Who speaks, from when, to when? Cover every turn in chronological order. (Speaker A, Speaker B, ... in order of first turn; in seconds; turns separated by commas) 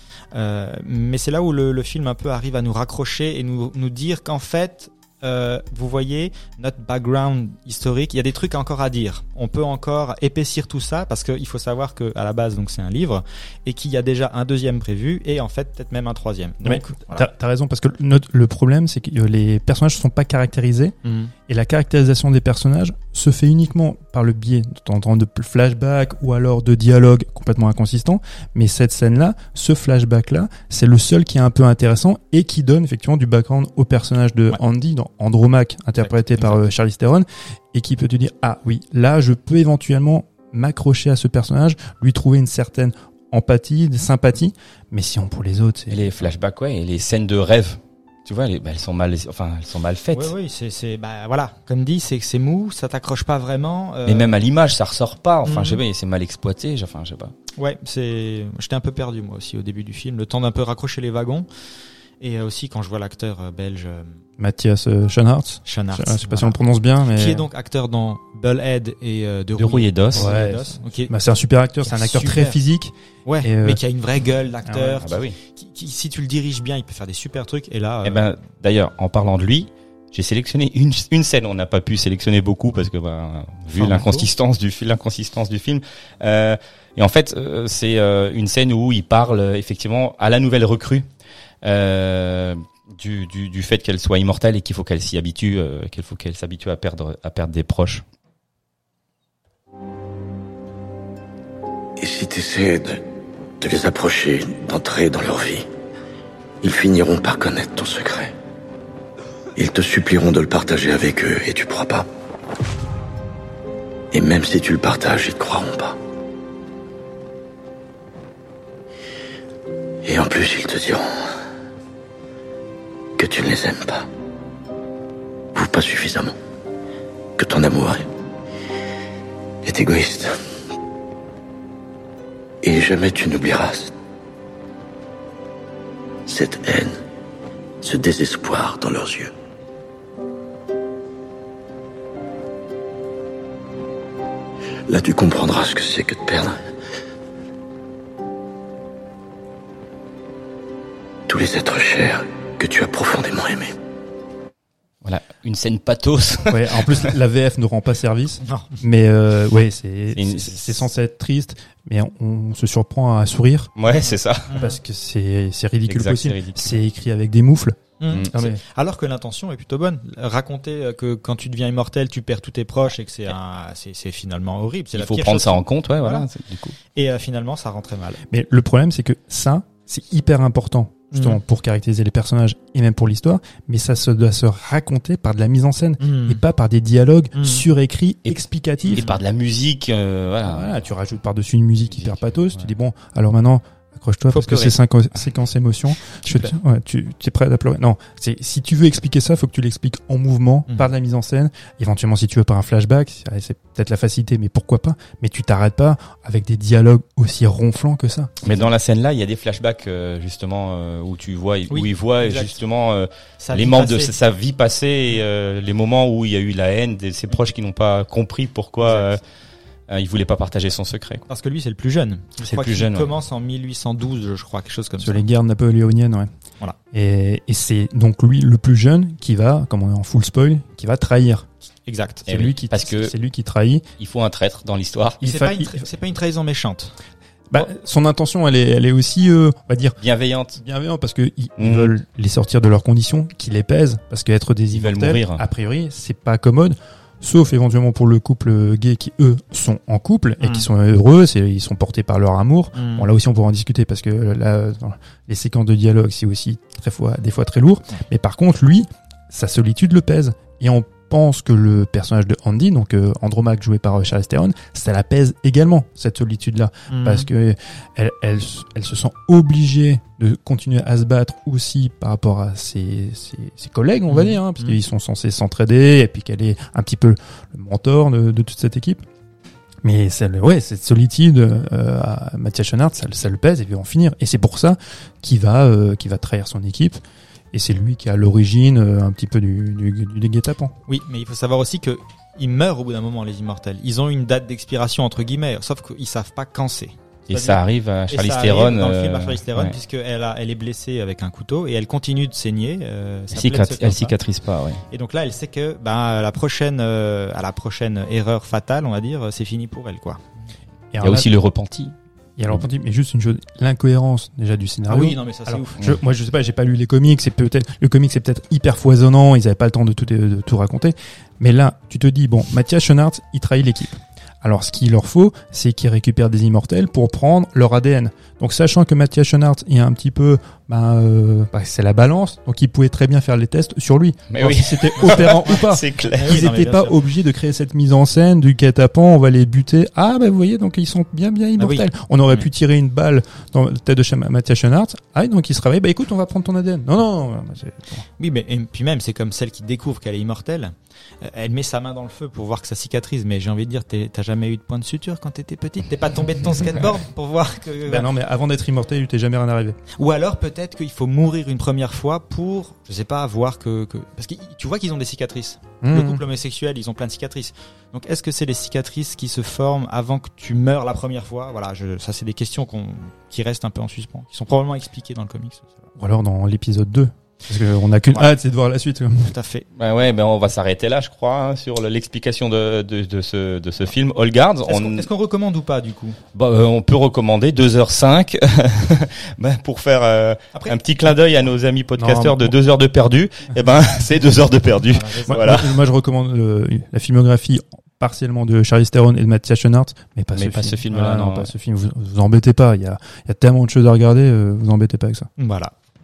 Speaker A: 0.3-17.3, Speaker B: 16.6-20.9, Speaker A: 21.0-21.3, Speaker B: 21.5-46.1, Speaker C: 45.9-50.3, Speaker A: 50.1-54.3, Speaker C: 54.0-57.3, Speaker A: 55.4-55.8, Speaker A: 57.5-61.5, Speaker A: 62.2-64.2, Speaker B: 64.4-67.5, Speaker A: 65.6-71.1, Speaker C: 69.6-70.3, Speaker B: 70.1-73.8, Speaker A: 71.8-72.6, Speaker A: 73.2-78.3, Speaker B: 74.7-75.0, Speaker C: 74.9-75.4, Speaker C: 78.0-91.0, Speaker A: 83.8-84.3, Speaker C: 91.6-98.0, Speaker D: 102.0-103.0, Speaker D: 103.6-105.7, Speaker D: 106.6-108.3, Speaker D: 109.5-112.1, Speaker D: 114.1-116.0, Speaker D: 120.0-121.1, Speaker D: 123.2-124.1, Speaker D: 125.5-126.3, Speaker D: 127.4-128.1, Speaker D: 129.6-130.3, Speaker D: 132.6-133.9, Speaker D: 136.3-137.0, Speaker D: 137.8-139.3, Speaker D: 144.9-146.6, Speaker D: 151.3-153.7, Speaker C: 155.0-157.1, Speaker B: 156.5-163.7, Speaker A: 158.4-158.8, Speaker C: 160.1-160.8, Speaker C: 163.8-164.5, Speaker A: 164.1-164.8, Speaker B: 164.5-167.8, Speaker C: 165.9-166.8, Speaker A: 168.0-176.3, Speaker C: 168.1-168.4, Speaker B: 168.3-168.6, Speaker C: 174.9-176.8, Speaker A: 176.9-178.2, Speaker B: 178.3-189.1, Speaker A: 181.1-181.4, Speaker A: 186.0-186.4, Speaker A: 187.3-187.6, Speaker C: 188.2-190.8, Speaker B: 190.4-208.3, Speaker C: 191.9-192.7, Speaker A: 194.3-194.8, Speaker A: 196.2-196.5, Speaker C: 208.4-219.2, Speaker A: 211.7-212.6, Speaker A: 213.4-214.1, Speaker A: 218.8-219.2, Speaker C: 219.9-221.2, Speaker A: 221.3-225.2, Speaker C: 222.4-223.1, Speaker B: 225.0-226.3, Speaker B: 226.9-231.5, Speaker A: 231.8-232.3, Speaker C: 232.2-233.1, Speaker B: 232.3-233.8, Speaker C: 234.0-235.2, Speaker B: 235.2-235.8, Speaker A: 235.2-236.9, Speaker B: 237.5-240.0, Speaker C: 240.0-240.6, Speaker B: 240.5-279.0, Speaker C: 241.6-241.9, Speaker C: 244.7-245.4, Speaker A: 250.4-250.7, Speaker A: 252.7-253.1, Speaker A: 266.9-267.3, Speaker A: 274.1-274.8, Speaker B: 279.8-287.0, Speaker B: 287.5-290.7, Speaker A: 290.9-304.1, Speaker C: 297.3-299.8, Speaker C: 303.3-304.8, Speaker A: 304.9-310.2, Speaker B: 310.9-311.3, Speaker C: 311.0-311.9, Speaker B: 312.4-348.0, Speaker A: 314.9-315.8, Speaker C: 334.3-336.4, Speaker A: 335.0-335.6, Speaker A: 336.1-337.0, Speaker A: 341.6-341.9, Speaker A: 348.2-358.1, Speaker B: 357.8-359.8, Speaker A: 360.0-375.9, Speaker B: 365.8-366.2, Speaker B: 376.0-379.3, Speaker A: 379.2-379.7, Speaker C: 379.8-385.0, Speaker A: 384.6-386.2, Speaker C: 386.3-395.8, Speaker A: 390.5-390.8, Speaker B: 392.0-392.5, Speaker A: 394.9-395.4, Speaker B: 395.3-405.3, Speaker C: 400.3-401.5, Speaker A: 405.4-405.7